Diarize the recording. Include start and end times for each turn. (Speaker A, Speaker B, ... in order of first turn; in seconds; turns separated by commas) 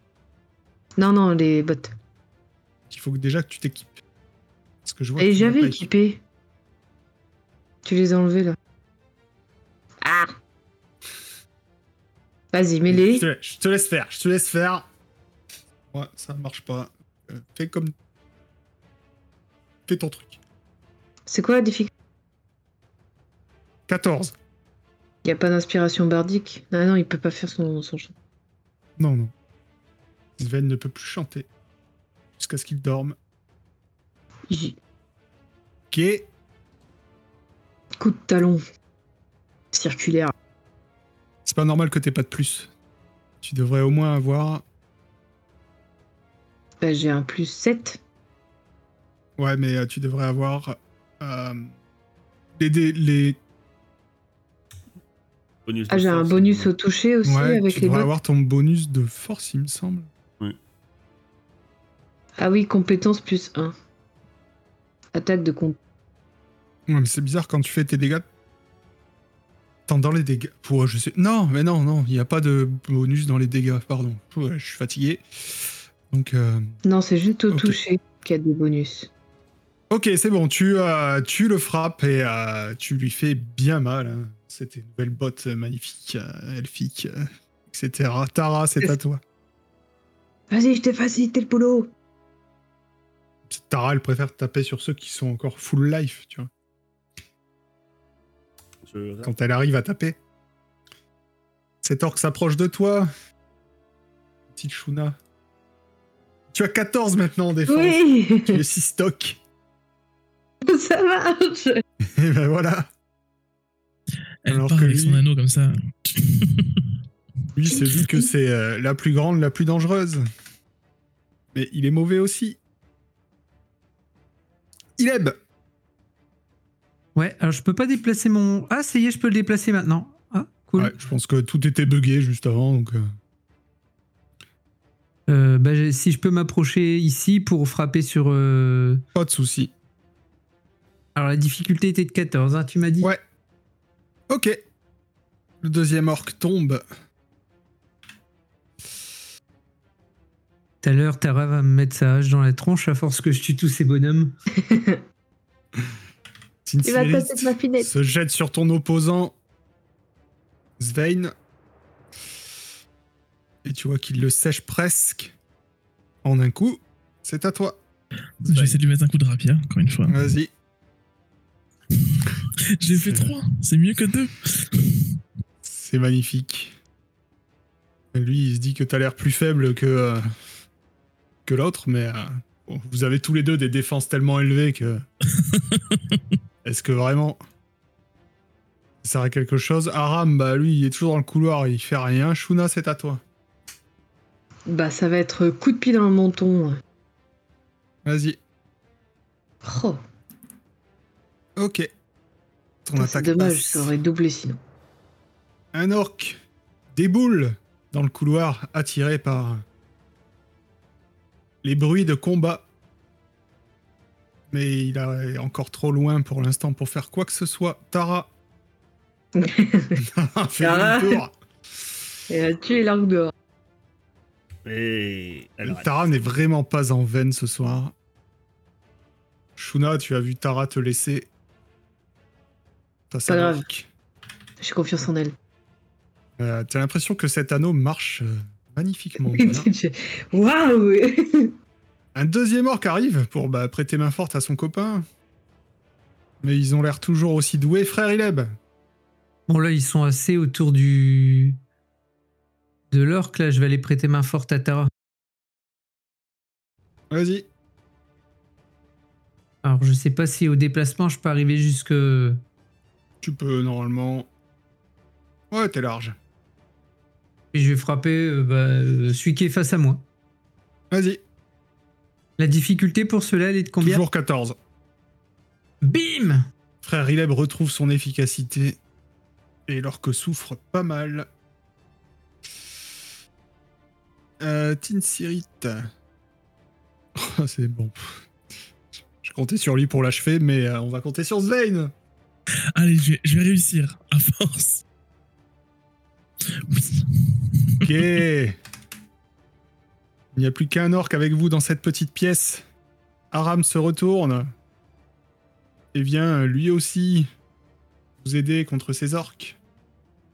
Speaker A: 1.0-1.9, Speaker B: 2.9-4.0, Speaker B: 4.8-5.8, Speaker A: 5.2-6.2, Speaker A: 7.8-8.6, Speaker A: 10.0-10.3, Speaker A: 12.5-13.2, Speaker B: 12.9-14.9, Speaker B: 15.9-17.9, Speaker B: 19.9-20.4, Speaker A: 21.3-21.9, Speaker B: 23.9-24.3, Speaker A: 25.2-28.1, Speaker B: 29.0-29.3, Speaker B: 30.4-31.5, Speaker B: 32.4-33.1, Speaker A: 34.5-34.8, Speaker B: 35.9-36.3, Speaker A: 38.0-38.6, Speaker A: 39.7-40.3, Speaker B: 41.4-42.7, Speaker B: 43.4-44.6, Speaker A: 46.8-48.0, Speaker B: 49.4-51.7, Speaker B: 52.5-53.4, Speaker C: 55.6-56.7, Speaker A: 55.9-58.1, Speaker B: 57.2-60.1, Speaker A: 62.4-63.7, Speaker A: 65.1-65.8, Speaker B: 66.9-68.2, Speaker B: 69.9-76.8, Speaker A: 76.8-79.1, Speaker B: 77.5-77.8, Speaker B: 79.9-89.2, Speaker A: 90.5-91.9, Speaker B: 93.5-96.5, Speaker C: 98.8-99.3, Speaker B: 99.2-100.2, Speaker B: 101.8-103.1, Speaker B: 104.5-105.2, Speaker B: 106.5-109.4, Speaker A: 107.7-108.6, Speaker A: 110.6-111.8, Speaker B: 112.0-112.9, Speaker D: 114.4-116.8, Speaker B: 114.5-115.2, Speaker B: 117.5-120.2, Speaker B: 121.5-122.6, Speaker B: 125.0-125.4, Speaker E: 127.1-130.9, Speaker B: 130.8-133.0, Speaker E: 135.3-139.0, Speaker B: 139.1-139.7, Speaker E: 141.2-143.1, Speaker B: 144.3-144.6, Speaker B: 145.6-146.8, Speaker E: 150.8-154.3, Speaker A: 154.6-155.0, Speaker B: 156.7-159.3, Speaker A: 156.8-157.9, Speaker B: 160.8-161.3, Speaker B: 163.6-165.3, Speaker B: 166.2-167.8, Speaker D: 168.4-170.2, Speaker B: 168.5-168.8, Speaker B: 170.1-170.5, Speaker D: 172.1-175.0, Speaker B: 172.9-173.3, Speaker B: 175.6-176.7, Speaker B: 178.1-180.2, Speaker B: 181.4-185.0, Speaker D: 185.4-186.2, Speaker B: 186.6-187.4, Speaker B: 189.0-193.2, Speaker A: 194.7-196.8, Speaker B: 198.0-198.4, Speaker A: 199.6-200.0, Speaker B: 201.6-201.9, Speaker B: 202.8-203.9, Speaker A: 203.0-204.6, Speaker B: 205.7-206.4, Speaker B: 206.9-209.6, Speaker B: 211.6-212.7, Speaker B: 214.5-218.3, Speaker A: 219.3-220.0, Speaker B: 220.0-221.3, Speaker A: 220.6-221.2, Speaker A: 222.3-223.3, Speaker C: 224.7-225.9, Speaker B: 225.6-227.9, Speaker B: 229.6-231.3, Speaker B: 233.1-233.9, Speaker A: 233.3-233.6, Speaker A: 234.6-235.3, Speaker B: 236.4-239.7, Speaker A: 239.3-241.5, Speaker B: 242.1-245.0, Speaker B: 246.4-248.6, Speaker E: 249.5-251.6, Speaker E: 252.9-254.9, Speaker B: 257.1-257.5, Speaker E: 259.6-262.4, Speaker B: 263.2-264.3, Speaker B: 265.5-266.1, Speaker E: 267.5-270.0, Speaker B: 270.9-271.2, Speaker E: 272.4-274.0, Speaker B: 273.8-274.6, Speaker E: 275.8-276.5, Speaker B: 276.8-278.8, Speaker B: 279.7-281.3, Speaker B: 284.4-285.9, Speaker B: 287.1-288.2, Speaker B: 289.2-291.9, Speaker D: 292.8-294.8, Speaker D: 296.7-298.0, Speaker B: 297.8-298.6, Speaker B: 300.3-302.6, Speaker B: 303.3-304.5, Speaker B: 305.9-307.3, Speaker B: 308.2-309.6